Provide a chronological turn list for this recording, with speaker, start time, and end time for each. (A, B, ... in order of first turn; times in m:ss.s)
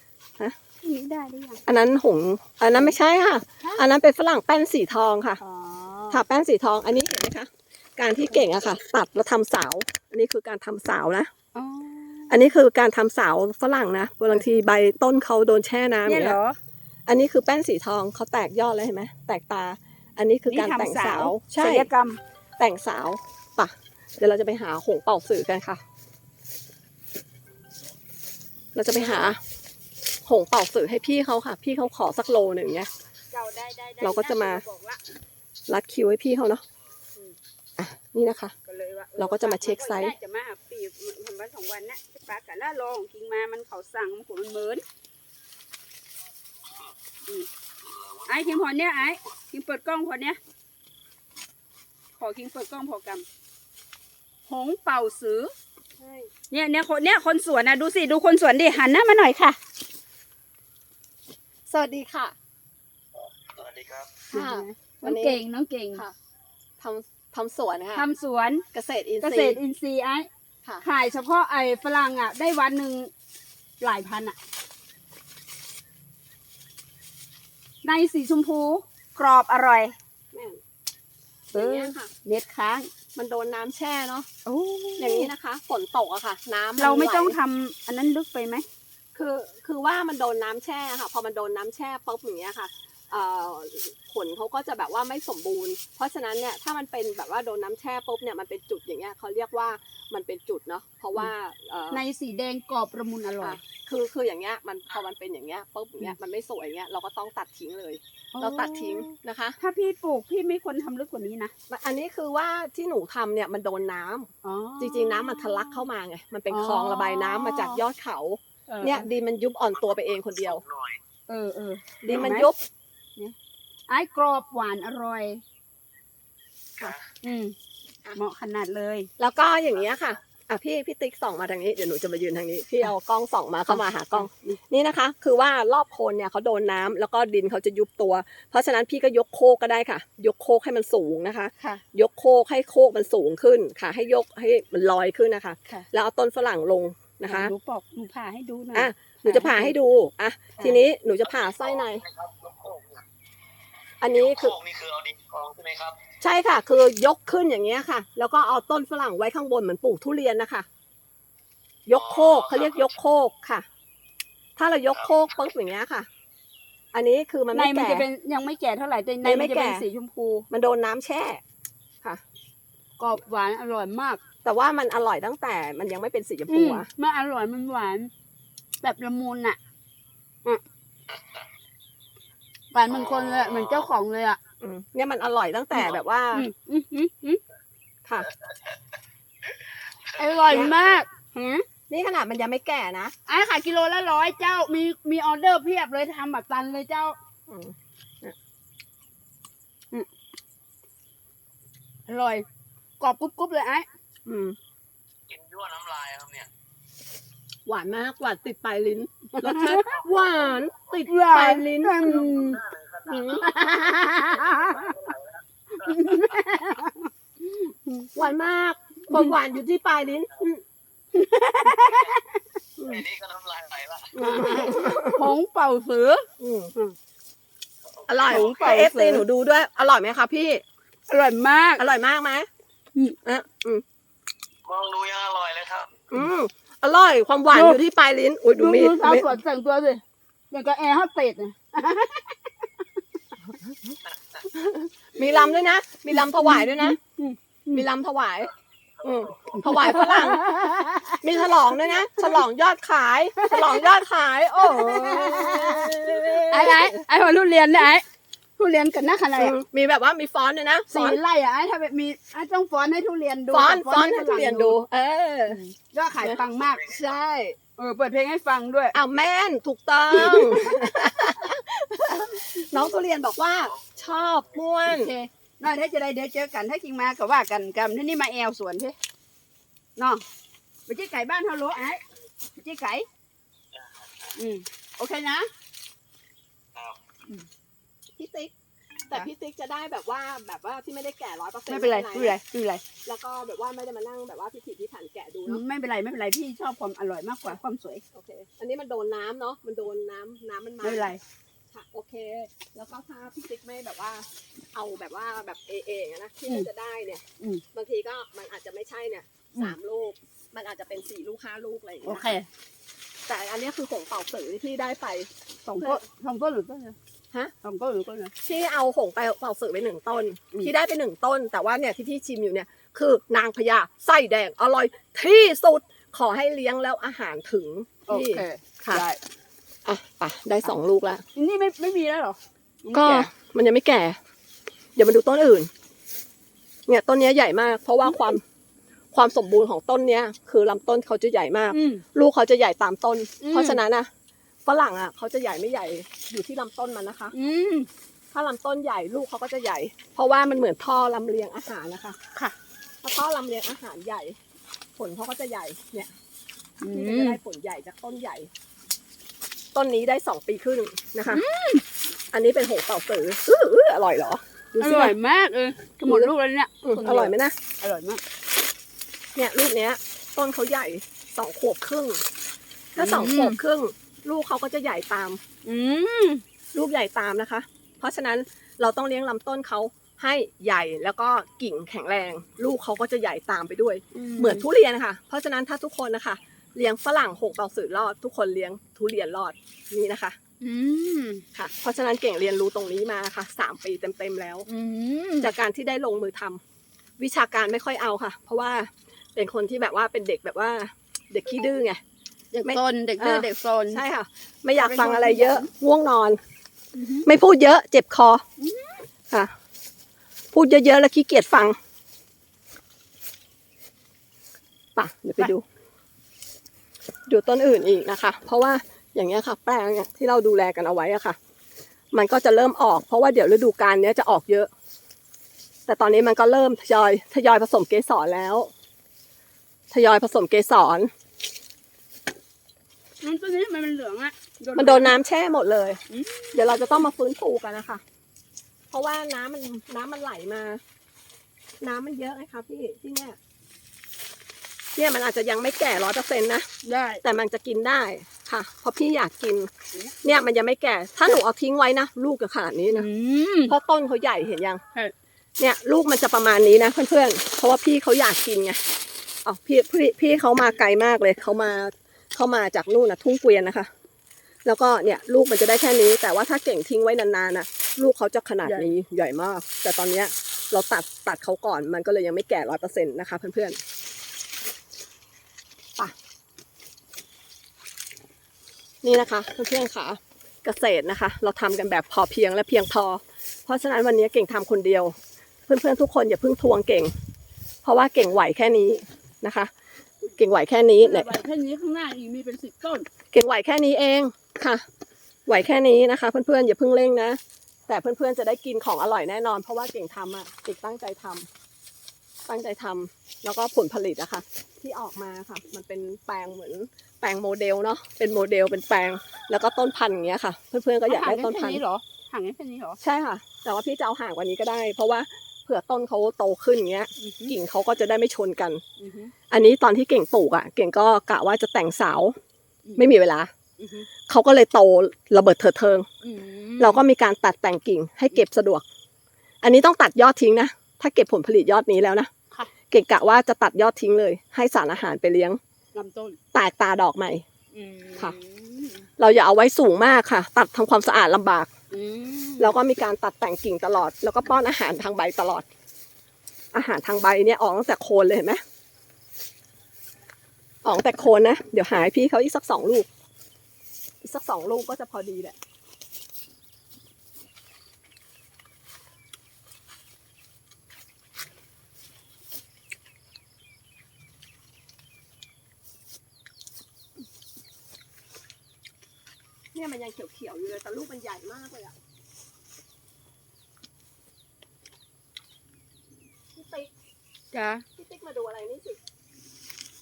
0:00.8-0:01.6 A
0:01.7-0:05.4 B
0:05.4-0:06.2 A
0:06.1-0:11.3 B
0:11.5-0:12.4 A
0:12.3-0:16.4 B
0:16.0-0:16.6 A
0:17.1-0:21.9 B
0:20.4-0:22.2 A
0:22.6-0:25.8 B
0:28.7-0:29.4 B
0:29.0-0:29.3 A
0:30.3-0:32.9 B
0:33.3-0:35.0 A
0:34.0-0:34.6 B
0:35.7-0:36.6 B
0:37.8-0:38.5 B
0:38.6-0:44.8 A
0:39.2-0:40.2 B
0:48.2-0:50.4 A
0:52.2-0:53.3 A
0:54.5-0:55.5 A
0:56.0-0:56.3 B
0:56.5-0:59.6 A
1:01.7-1:02.3 B
1:03.5-1:04.2 C
1:04.3-1:05.4 B
1:04.3-1:06.0 A
1:06.8-1:08.1 B
1:07.9-1:08.6 A
1:08.7-1:09.6 B
1:09.2-1:10.3 A
1:10.8-1:13.1 A
1:13.8-1:14.4 A
1:17.8-1:20.0 A
1:20.3-1:20.6 B
1:21.5-1:22.9 A
1:21.5-1:22.1 B
1:23.2-1:24.3 B
1:24.5-1:25.3 A
1:25.0-1:27.4 B
1:26.8-1:28.7 A
1:29.2-1:42.0 B
1:41.9-1:43.6 A
1:43.4-1:49.6 B
1:48.3-1:51.5 A
1:51.7-2:00.6 B
1:54.4-1:55.8 A
1:56.5-1:57.8 A
1:58.7-1:59.1 A
2:01.3-2:02.5 A
2:02.0-2:02.6 B
2:03.9-2:05.4 A
2:07.2-2:07.6 A
2:08.2-2:09.1 A
2:09.2-2:27.5 B
2:13.8-2:14.6 A
2:27.2-2:29.8 A
2:28.7-2:32.1 B
2:32.1-2:33.0 C
2:34.0-2:34.6 B
2:34.6-2:36.0 C
2:36.2-2:40.7 B
2:41.9-2:43.6 B
2:44.6-2:46.1 B
2:46.9-2:48.1 B
2:47.5-2:50.5 A
2:49.2-2:49.8 B
2:50.5-2:51.4 B
2:53.0-2:54.2 A
2:54.4-2:56.9 B
2:56.5-2:58.1 A
2:58.8-2:59.6 A
3:02.7-3:04.4 A
3:04.6-3:06.5 B
3:06.3-3:07.4 A
3:08.0-3:08.3 B
3:10.2-3:11.6 A
3:10.5-3:10.7 B
3:11.9-3:13.1 B
3:13.3-3:17.2 A
3:17.5-3:18.4 B
3:22.1-3:22.4 A
3:23.0-3:23.9 A
3:24.2-3:24.6 B
3:25.3-3:26.5 C
3:27.7-3:32.5 B
3:29.4-3:29.8 A
3:31.1-3:32.7 A
3:33.1-3:33.5 B
3:33.3-3:35.1 A
3:35.8-3:38.1 A
3:38.1-3:40.6 B
3:41.1-3:42.4 A
3:42.8-3:43.0 B
3:43.0-3:44.1 C
3:44.2-3:46.2 A
3:44.2-3:45.3 B
3:46.4-3:46.7 B
3:48.0-3:50.6 B
3:48.3-3:49.2 A
3:51.1-3:51.8 A
3:51.8-3:52.5 B
3:53.2-3:53.8 B
3:54.7-3:56.0 C
3:56.1-3:59.3 B
3:58.6-4:02.6 A
4:04.5-4:07.0 B
4:06.3-4:07.4 A
4:07.7-4:10.4 B
4:09.7-4:11.2 A
4:11.2-4:17.0 B
4:13.4-4:13.9 A
4:14.6-4:18.0 A
4:18.6-4:19.5 A
4:19.3-4:21.2 B
4:20.9-4:24.7 A
4:23.5-4:25.6 B
4:25.5-4:26.8 A
4:26.2-4:27.6 B
4:27.8-4:29.0 A
4:28.9-4:35.1 B
4:34.9-4:39.0 A
4:40.0-4:40.2 A
4:40.9-4:42.0 A
4:42.6-4:43.1 A
4:44.4-4:45.5 A
4:48.2-4:48.5 B
4:49.1-4:52.4 B
4:51.7-4:52.8 A
4:53.0-4:55.6 B
4:55.5-4:58.0 A
4:58.1-5:01.1 B
5:00.8-5:01.2 A
5:01.7-5:07.2 B
5:07.7-5:12.3 B
5:12.0-5:12.5 A
5:13.3-5:16.0 B
5:15.7-5:17.0 A
5:17.6-5:18.3 A
5:18.4-5:29.0 B
5:28.1-5:29.2 A
5:29.8-5:31.2 B
5:31.4-5:33.3 A
5:32.9-5:34.2 B
5:35.0-5:35.7 B
5:36.9-5:38.4 B
5:39.1-5:44.1 B
5:41.7-5:42.0 A
5:43.4-5:43.8 A
5:44.6-5:47.4 B
5:47.3-5:47.9 A
5:48.3-5:52.2 B
5:53.0-5:54.4 B
5:55.0-5:56.1 B
5:56.8-5:57.4 A
5:56.9-5:58.5 B
5:59.8-6:01.4 B
6:01.3-6:01.8 A
6:02.3-6:05.2 B
6:04.8-6:08.2 A
6:06.0-6:06.3 B
6:06.8-6:07.6 B
6:09.4-6:12.2 B
6:13.0-6:15.4 B
6:13.0-6:13.6 A
6:15.6-6:16.4 A
6:16.7-6:30.4 B
6:24.2-6:24.6 A
6:30.6-6:31.4 A
6:31.6-6:34.7 B
6:34.7-6:35.5 A
6:35.4-6:36.6 B
6:37.2-6:42.0 B
6:42.5-6:44.0 A
6:42.6-6:46.4 B
6:44.8-6:45.7 A
6:46.9-6:47.3 A
6:47.2-6:48.4 B
6:48.6-6:49.0 A
6:50.5-6:51.8 B
6:55.0-6:55.6 B
6:57.3-7:01.4 B
7:02.1-7:04.7 B
7:05.9-7:08.7 B
7:09.9-7:11.1 B
7:13.2-7:15.2 A
7:14.8-7:16.0 B
7:16.1-7:16.6 A
7:16.5-7:18.0 B
7:18.9-7:20.8 B
7:21.8-7:23.4 B
7:24.9-7:26.7 B
7:26.8-7:27.2 A
7:27.2-7:29.7 B
7:29.9-7:30.3 A
7:30.2-7:33.1 B
7:32.9-7:33.8 A
7:33.7-7:34.8 B
7:35.6-7:38.8 B
7:39.4-7:43.9 B
7:44.6-7:53.8 B
7:59.0-8:05.2 B
8:05.7-8:07.1 B
8:07.8-8:09.7 B
8:10.4-8:11.4 B
8:11.0-8:13.1 A
8:13.3-8:14.8 B
8:15.5-8:21.5 B
8:22.5-8:31.8 B
8:31.1-8:33.0 A
8:33.0-8:38.8 B
8:37.2-8:37.5 A
8:39.0-8:39.3 A
8:39.5-8:42.4 B
8:43.0-8:43.5 B
8:43.8-8:44.1 A
8:44.3-8:46.1 B
8:46.2-8:47.0 A
8:46.8-8:48.8 B
8:49.6-8:52.3 B
8:52.9-8:55.6 B
8:55.9-8:56.4 A
8:56.5-8:57.4 B
8:57.7-8:59.1 A
8:59.2-9:01.7 B
9:01.9-9:02.8 A
9:02.6-9:05.6 B
9:06.7-9:08.6 B
9:10.8-9:13.1 B
9:14.2-9:15.6 B
9:29.7-9:31.9 B
9:36.5-9:36.9 B
9:37.5-9:37.8 A
9:37.9-9:39.0 B